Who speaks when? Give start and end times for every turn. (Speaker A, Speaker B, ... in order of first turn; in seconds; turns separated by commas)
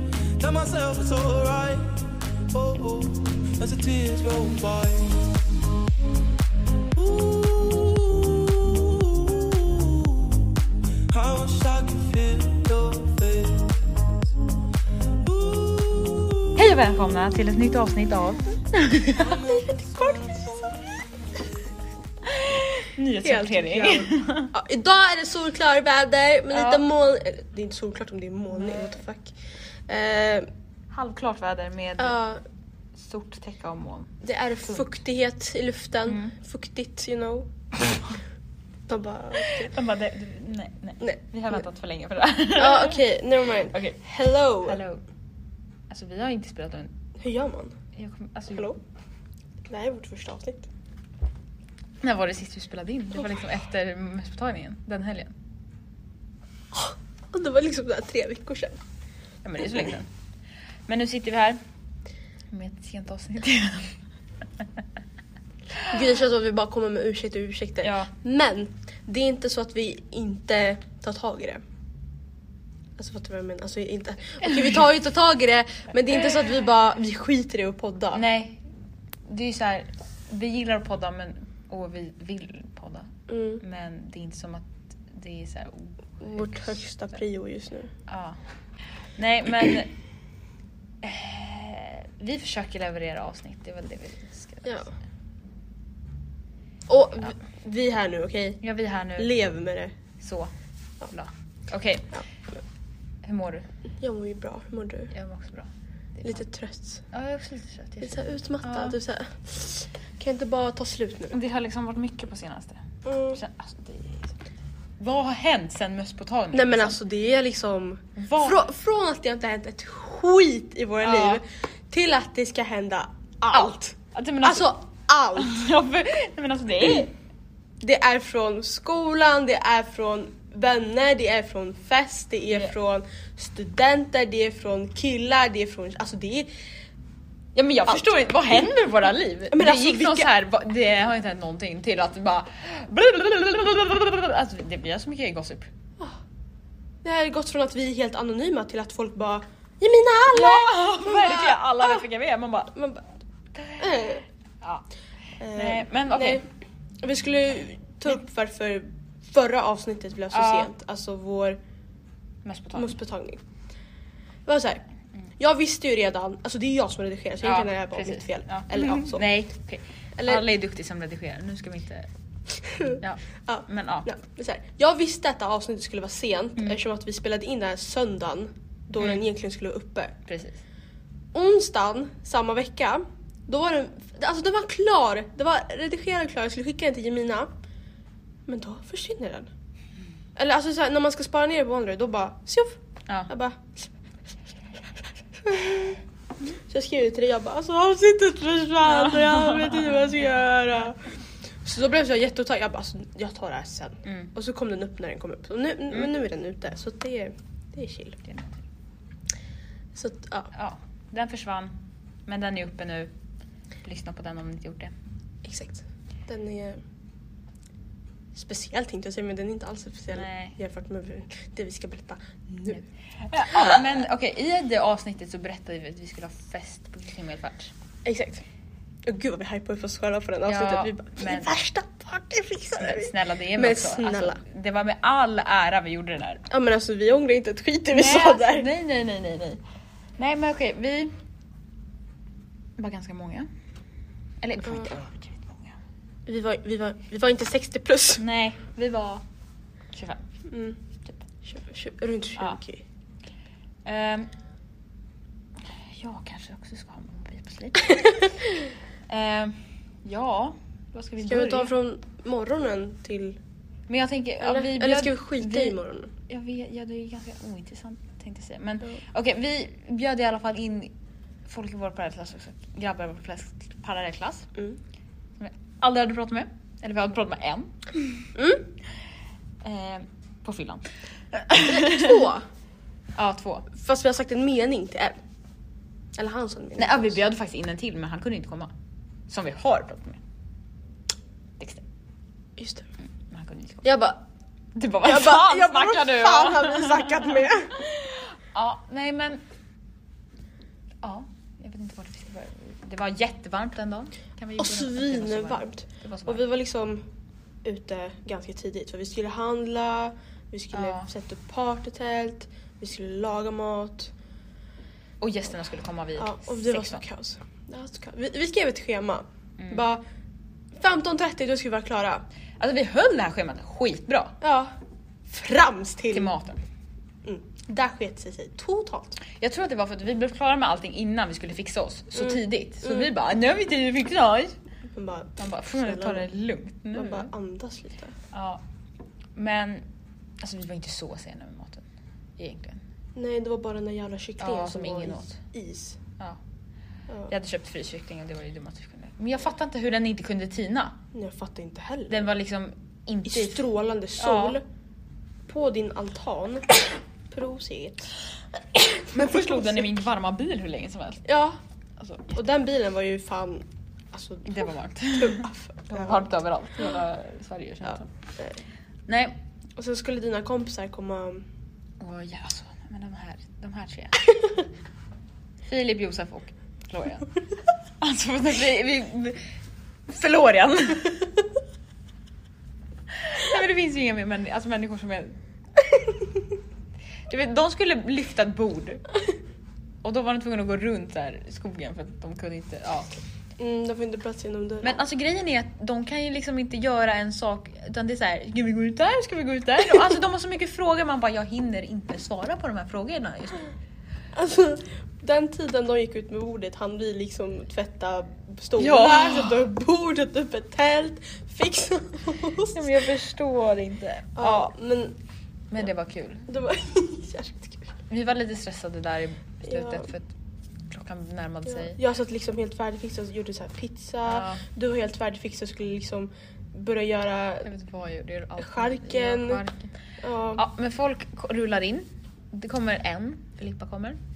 Speaker A: 0.4-1.9, Speaker A: 2.5-5.3, Speaker A: 7.0-10.4, Speaker A: 11.1-13.8, Speaker A: 15.2-16.4, Speaker B: 16.6-19.3, Speaker A: 19.2-20.5, Speaker C: 19.4-20.6, Speaker B: 22.6-24.5, Speaker C: 23.2-29.4, Speaker B: 26.5-26.8, Speaker B: 28.5-29.0, Speaker C: 29.9-30.5, Speaker B: 30.9-32.2, Speaker C: 32.0-32.4, Speaker B: 33.0-34.1, Speaker C: 34.2-37.5, Speaker B: 36.1-36.3, Speaker C: 38.9-39.7, Speaker B: 39.4-43.0, Speaker C: 42.6-44.8, Speaker B: 43.7-44.0, Speaker B: 44.7-45.0, Speaker B: 45.9-46.9, Speaker C: 47.2-47.8, Speaker B: 48.0-48.7, Speaker C: 48.5-48.8, Speaker C: 49.6-50.7, Speaker B: 52.0-55.3, Speaker C: 56.7-58.8, Speaker B: 59.4-60.1, Speaker B: 60.9-61.6, Speaker B: 62.5-63.9, Speaker C: 65.9-71.6, Speaker B: 67.8-68.1, Speaker C: 73.0-78.2, Speaker B: 78.1-78.6, Speaker B: 79.3-83.1, Speaker C: 83.3-83.6, Speaker B: 83.6-86.7, Speaker C: 86.3-87.9, Speaker B: 88.1-88.4, Speaker B: 89.2-89.9, Speaker B: 91.0-94.9, Speaker C: 96.9-98.6, Speaker B: 98.6-99.3, Speaker C: 99.2-99.9, Speaker B: 100.2-100.5, Speaker B: 101.1-102.2, Speaker B: 103.2-103.7, Speaker C: 104.0-105.1, Speaker B: 105.1-106.5, Speaker C: 106.2-107.0, Speaker B: 107.1-109.0, Speaker C: 108.0-111.3, Speaker B: 111.3-112.8, Speaker C: 113.0-113.4, Speaker B: 113.3-114.3, Speaker B: 115.0-117.0, Speaker C: 116.5-125.6, Speaker B: 118.2-118.6, Speaker B: 121.0-121.4, Speaker B: 123.5-124.7, Speaker B: 125.4-127.1, Speaker C: 127.8-136.5, Speaker B: 137.6-145.7, Speaker C: 139.5-140.3, Speaker C: 147.0-152.1, Speaker B: 150.3-152.7, Speaker C: 152.7-153.1, Speaker C: 153.8-154.2, Speaker C: 155.4-156.4, Speaker B: 155.6-156.4, Speaker C: 157.0-161.6, Speaker B: 160.3-160.7, Speaker B: 162.4-163.0, Speaker C: 162.7-163.4, Speaker C: 164.5-164.8, Speaker C: 165.4-169.3, Speaker B: 167.4-172.1, Speaker C: 170.2-170.4, Speaker C: 172.7-180.2, Speaker B: 173.0-174.1, Speaker B: 180.3-180.6, Speaker C: 181.3-187.5, Speaker C: 188.5-189.5, Speaker C: 190.4-193.7, Speaker C: 195.4-196.0, Speaker C: 196.7-201.0, Speaker B: 198.9-199.9, Speaker C: 201.6-208.2, Speaker B: 204.1-204.3, Speaker B: 208.2-208.6, Speaker C: 209.9-210.5, Speaker B: 210.5-211.8, Speaker B: 212.3-213.1, Speaker B: 213.8-214.9, Speaker C: 215.4-216.8, Speaker C: 218.3-222.8, Speaker B: 220.1-220.6, Speaker B: 222.7-227.7, Speaker C: 223.5-223.8, Speaker C: 228.1-228.4, Speaker C: 229.1-234.4, Speaker B: 230.5-231.5, Speaker B: 232.7-236.4, Speaker C: 236.5-238.7, Speaker B: 237.9-239.6, Speaker B: 240.2-241.1, Speaker B: 242.8-243.5, Speaker B: 244.4-245.8, Speaker C: 244.6-244.9, Speaker C: 246.3-248.2, Speaker B: 248.2-249.2, Speaker B: 249.9-250.2, Speaker C: 250.5-250.8, Speaker C: 251.4-252.8, Speaker B: 253.9-254.3, Speaker B: 256.0-258.1, Speaker B: 259.1-261.7, Speaker C: 261.2-263.4, Speaker B: 263.9-265.8, Speaker C: 264.4-266.1, Speaker B: 266.3-270.9, Speaker B: 271.5-274.5, Speaker B: 275.4-277.7, Speaker C: 278.4-278.7, Speaker B: 279.6-282.2, Speaker C: 281.5-282.4, Speaker B: 283.2-283.7, Speaker C: 283.7-285.2, Speaker C: 286.2-287.2, Speaker B: 286.8-288.7, Speaker B: 289.3-290.2, Speaker C: 292.6-292.9, Speaker B: 293.3-293.9, Speaker C: 293.8-294.2, Speaker B: 294.8-299.4, Speaker C: 295.0-297.7, Speaker B: 301.0-306.4, Speaker C: 304.6-307.1, Speaker C: 307.6-314.1, Speaker B: 310.7-311.1, Speaker B: 315.2-317.0, Speaker C: 316.2-320.0, Speaker B: 319.6-319.9, Speaker C: 320.8-322.2, Speaker B: 322.6-324.4, Speaker C: 324.4-324.8, Speaker C: 325.3-326.3, Speaker B: 326.1-326.6, Speaker C: 327.2-329.2, Speaker B: 329.3-334.6, Speaker C: 332.2-333.1, Speaker C: 334.9-336.3, Speaker B: 335.4-337.3, Speaker C: 336.9-338.1, Speaker B: 338.3-338.6, Speaker B: 339.4-339.9, Speaker B: 340.4-341.8, Speaker B: 342.4-342.8, Speaker C: 343.1-346.0, Speaker B: 344.4-345.4, Speaker B: 347.3-351.0, Speaker C: 351.1-352.3, Speaker B: 352.1-353.6, Speaker C: 353.3-354.6, Speaker B: 354.2-354.6, Speaker C: 355.5-356.8, Speaker C: 357.3-358.1, Speaker B: 359.0-361.2, Speaker C: 359.1-359.8, Speaker C: 361.2-361.6, Speaker B: 362.0-362.4, Speaker C: 362.3-366.3, Speaker B: 364.5-368.1, Speaker C: 367.8-368.6, Speaker B: 369.1-369.4, Speaker C: 369.8-371.5, Speaker B: 372.0-374.2, Speaker B: 375.7-377.3, Speaker B: 378.0-379.4, Speaker B: 380.1-381.1, Speaker B: 383.2-385.4, Speaker B: 387.3-389.0, Speaker B: 390.0-393.1, Speaker C: 393.6-395.0, Speaker B: 394.8-403.7, Speaker C: 404.3-412.9, Speaker B: 408.8-409.6, Speaker B: 412.7-414.7, Speaker C: 414.4-415.2, Speaker B: 415.7-416.5, Speaker C: 416.5-417.9, Speaker B: 418.1-420.3, Speaker C: 419.6-420.1, Speaker B: 420.9-422.0, Speaker C: 421.7-427.7, Speaker B: 424.3-424.6, Speaker B: 427.6-429.9, Speaker C: 428.6-429.6, Speaker C: 430.2-430.6, Speaker B: 430.6-434.2